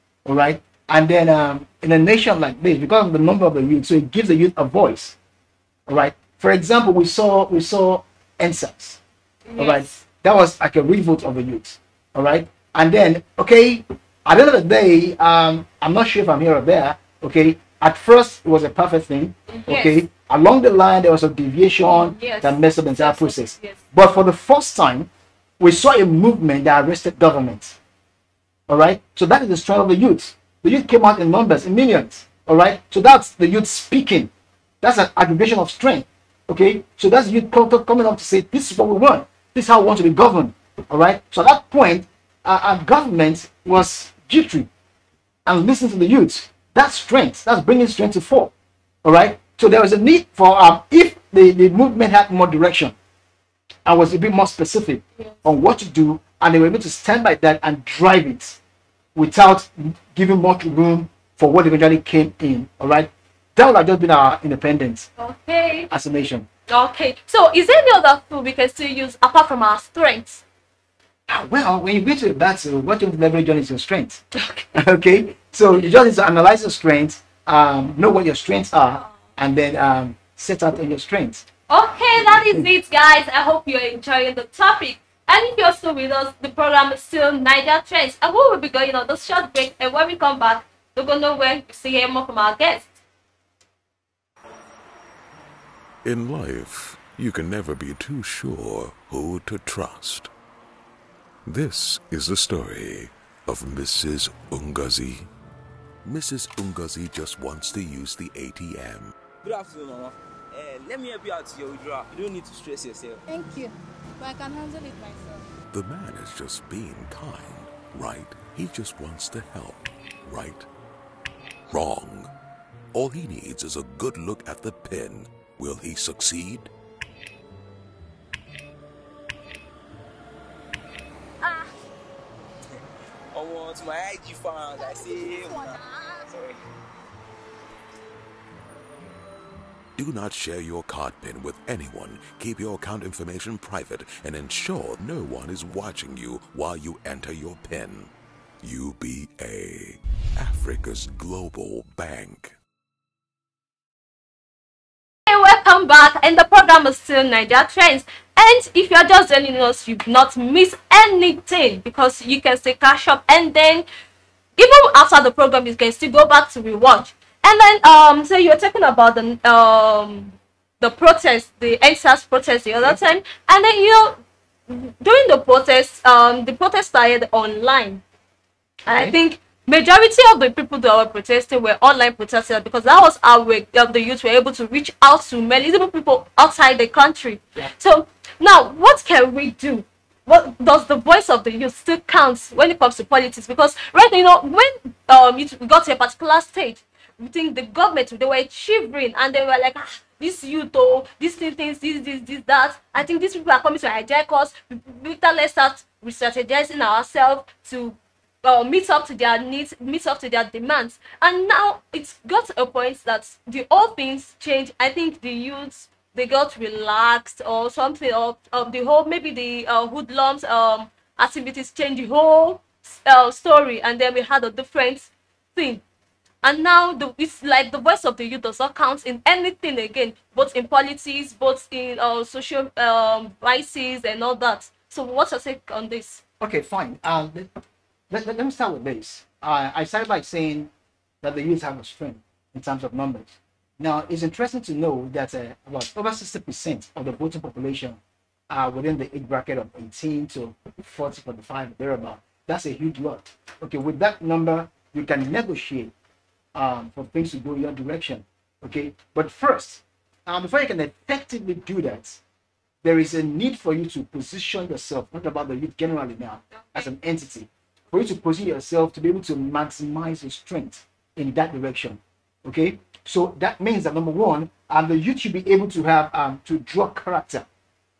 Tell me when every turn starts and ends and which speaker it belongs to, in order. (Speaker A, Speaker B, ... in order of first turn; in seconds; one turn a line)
Speaker A: 0.2-5.2
Speaker A: 5.9-9.0
Speaker B: 9.5-10.0
Speaker A: 9.6-27.8
Speaker B: 19.5-20.0
Speaker B: 21.9-23.8
Speaker A: 28.7-34.3
Speaker A: 34.8-44.7
Speaker A: 45.5-48.5
Speaker A: 49.0-52.9
Speaker A: 53.9-58.6
Speaker A: 59.1-65.1
Speaker B: 65.2-65.9
Speaker A: 65.9-66.5
Speaker B: 66.7-70.4
Speaker A: 71.3-74.2
Speaker B: 74.3-74.7
Speaker A: 74.7-81.5
Speaker B: 81.7-92.9
Speaker A: 82.2-82.7
Speaker C: 96.0-100.3
Speaker C: 101.5-105.3
Speaker C: 106.0-109.1
Speaker D: 109.4-113.2
Speaker E: 113.3-115.5
Speaker C: 115.7-120.7
Speaker C: 121.7-122.3
Speaker C: 122.9-126.7
Speaker E: 131.4-131.7
Speaker D: 133.3-136.6
Speaker E: 134.8-136.3
Speaker C: 139.9-152.5
Speaker B: 155.3-163.9
Speaker B: 164.6-178.0
Speaker A: 178.9-179.2
Speaker B: 178.9-225.8
Speaker B: 226.4-236.2
Speaker A: 236.4-237.5
Speaker A: 238.1-240.7
Speaker A: 241.2-255.9
Speaker A: 256.5-262.2
Speaker A: 262.8-277.4
Speaker B: 266.6-266.9